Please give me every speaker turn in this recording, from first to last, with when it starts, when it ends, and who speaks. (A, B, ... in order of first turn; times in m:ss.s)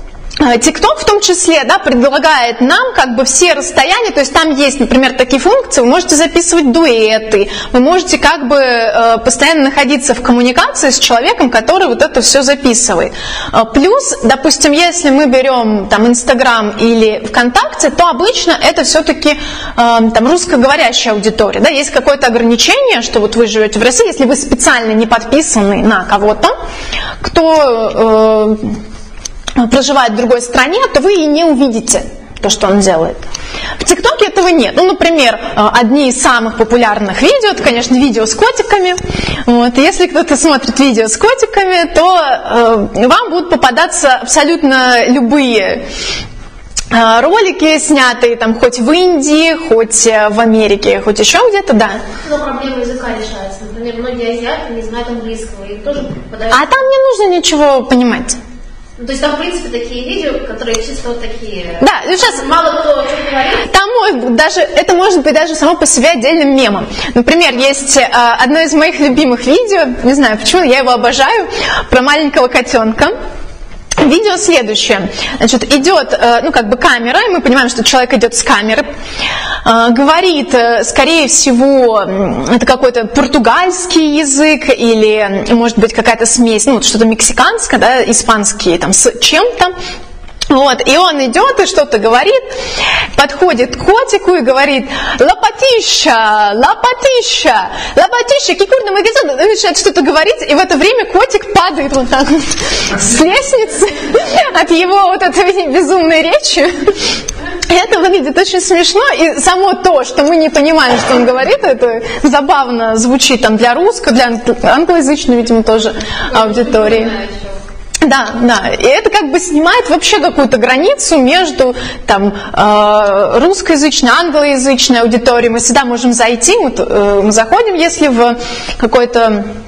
0:00.4-0:26.6 A
0:27.2-0:28.8 A
0:29.6-0:33.2 A
0:33.8-0:45.8 A
0:46.9-0:52.0 A
0:52.2-0:56.9 B
0:56.5-0:58.4 A
0:59.0-1:03.7 B
1:01.8-1:02.5 A
1:03.6-1:13.1 A
1:14.0-1:18.9 A
1:19.6-1:29.7 A
1:30.5-1:32.4 A
1:33.2-1:47.1 A
1:47.7-1:57.1 A
1:56.3-1:57.6 B
1:58.0-2:09.5 A